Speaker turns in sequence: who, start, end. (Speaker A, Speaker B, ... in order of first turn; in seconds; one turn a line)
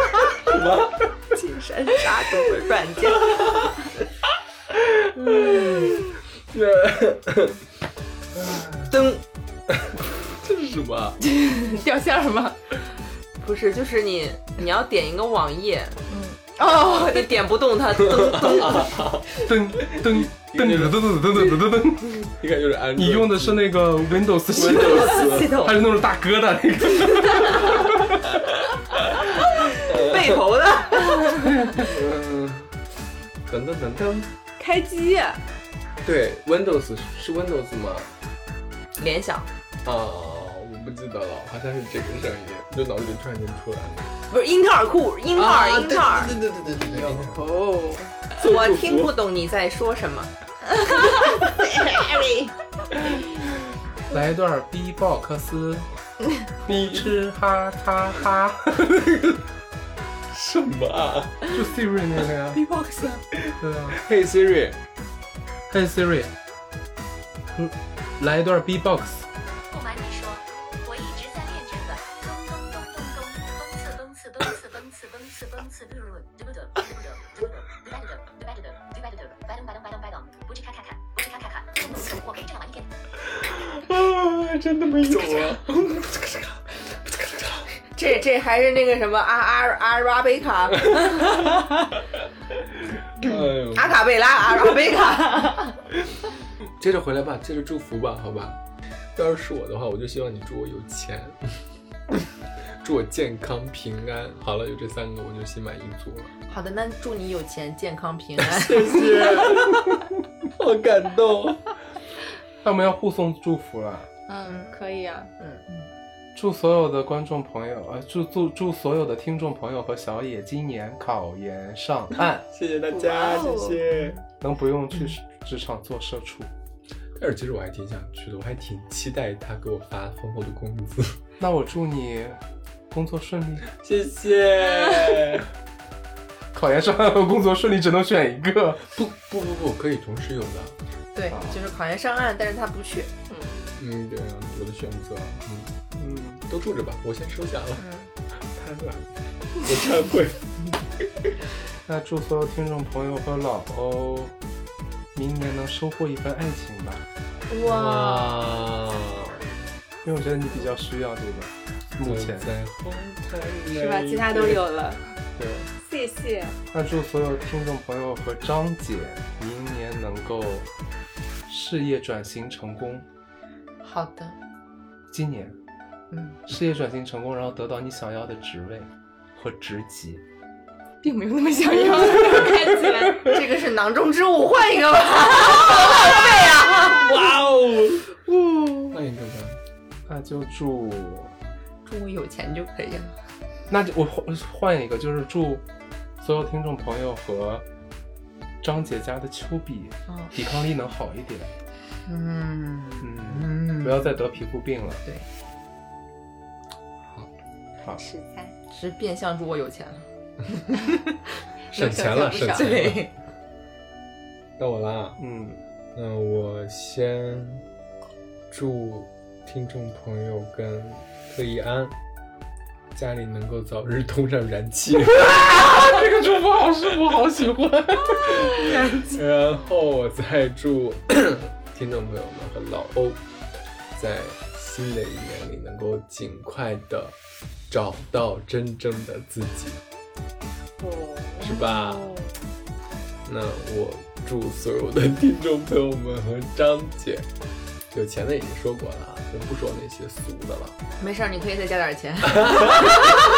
Speaker A: 0.4-1.1
Speaker B: 1.3-3.6
Speaker A: 3.3-3.7
Speaker A: 4.7-5.1
Speaker B: 5.2-6.0
Speaker A: 6.5-7.6
Speaker A: 8.3-9.0
Speaker B: 8.9-9.2
Speaker A: 9.7-11.2
Speaker C: 11.2-12.6
Speaker B: 13.4-16.0
Speaker C: 16.1-17.3
Speaker B: 16.6-18.9
Speaker A: 18.4-19.3
Speaker D: 19.4-22.3
Speaker A: 19.9-21.6
Speaker A: 22.4-23.6
Speaker D: 23.0-28.0
Speaker B: 24.5-25.8
Speaker A: 24.7-25.6
Speaker A: 29.8-30.4
Speaker B: 29.9-31.4
Speaker D: 31.5-31.8
Speaker A: 31.8-32.7
Speaker A: 33.5-34.3
Speaker C: 34.6-35.4
Speaker A: 36.0-38.1
Speaker B: 39.0-39.5
Speaker A: 39.9-44.1
Speaker B: 44.3-46.4
Speaker A: 45.3-47.4
Speaker C: 47.2-48.1
Speaker B: 48.4-50.3
Speaker A: 48.4-49.2
Speaker B: 50.9-52.5
Speaker D: 54.1-55.9
Speaker D: 56.5-59.4
Speaker A: 60.3-61.4
Speaker D: 61.5-62.6
Speaker B: 62.5-63.2
Speaker A: 63.4-64.8
Speaker D: 63.6-64.0
Speaker D: 65.7-66.3
Speaker D: 67.6-69.3
Speaker E: 69.7-82.9
Speaker A: 83.3-87.7
Speaker B: 85.1-85.5
Speaker B: 87.9-92.0
Speaker A: 93.2-94.0
Speaker B: 93.2-95.8
Speaker A: 96.8-98.6
Speaker A: 99.2-101.4
Speaker A: 102.8-106.3
Speaker B: 106.5-109.2
Speaker A: 108.4-110.0
Speaker A: 110.6-111.7
Speaker D: 112.6-114.1
Speaker C: 114.3-115.3
Speaker D: 116.3-122.5
Speaker A: 122.5-124.2
Speaker C: 122.9-123.8
Speaker D: 124.4-126.5
Speaker A: 127.2-131.2
Speaker D: 131.4-132.4
Speaker D: 132.9-133.7
Speaker A: 133.8-135.5
Speaker D: 136.5-138.9
Speaker A: 138.9-140.8
Speaker B: 141.2-143.1
Speaker D: 141.3-141.6
Speaker C: 143.3-143.6
Speaker A: 143.7-145.9
Speaker D: 146.0-146.4
Speaker A: 146.5-147.8
Speaker B: 147.8-148.1
Speaker A: 148.5-150.4
Speaker A: 151.0-151.3
Speaker D: 151.9-154.3
Speaker D: 155.2-157.1
Speaker B: 157.6-158.3
Speaker A: 157.6-159.5
Speaker D: 160.0-162.5
Speaker A: 162.0-164.6
Speaker C: 163.7-165.1
Speaker D: 165.4-165.7
Speaker C: 165.8-166.6
Speaker D: 166.7-170.7
Speaker D: 171.5-173.1
Speaker B: 173.8-174.4
Speaker D: 175.1-175.5
Speaker B: 176.1-176.4
Speaker D: 176.5-180.2
Speaker C: 181.0-183.2
Speaker B: 182.1-182.4
Speaker B: 183.1-187.1
Speaker A: 186.7-188.1
Speaker B: 188.3-188.9
Speaker A: 188.9-189.6
Speaker D: 190.1-191.3
Speaker B: 191.8-193.1
Speaker D: 193.7-195.7
Speaker D: 196.2-197.6
Speaker D: 198.6-201.5
Speaker B: 200.1-200.3
Speaker B: 202.1-204.2
Speaker D: 203.0-205.0
Speaker C: 208.0-208.5
Speaker B: 208.7-211.1
Speaker C: 211.7-212.7
Speaker A: 211.8-213.1
Speaker B: 212.4-213.1
Speaker A: 214.6-215.2
Speaker D: 215.2-215.6
Speaker A: 215.9-217.7
Speaker A: 218.5-221.9
Speaker A: 222.9-225.5
Speaker D: 225.3-228.6
Speaker A: 228.5-233.2
Speaker B: 228.6-229.2
Speaker A: 234.0-237.2
Speaker A: 237.7-239.8
Speaker C: 240.8-242.4
Speaker A: 241.4-242.1
Speaker A: 243.3-247.3
Speaker A: 247.9-250.8
Speaker B: 251.0-253.1
Speaker A: 252.9-253.2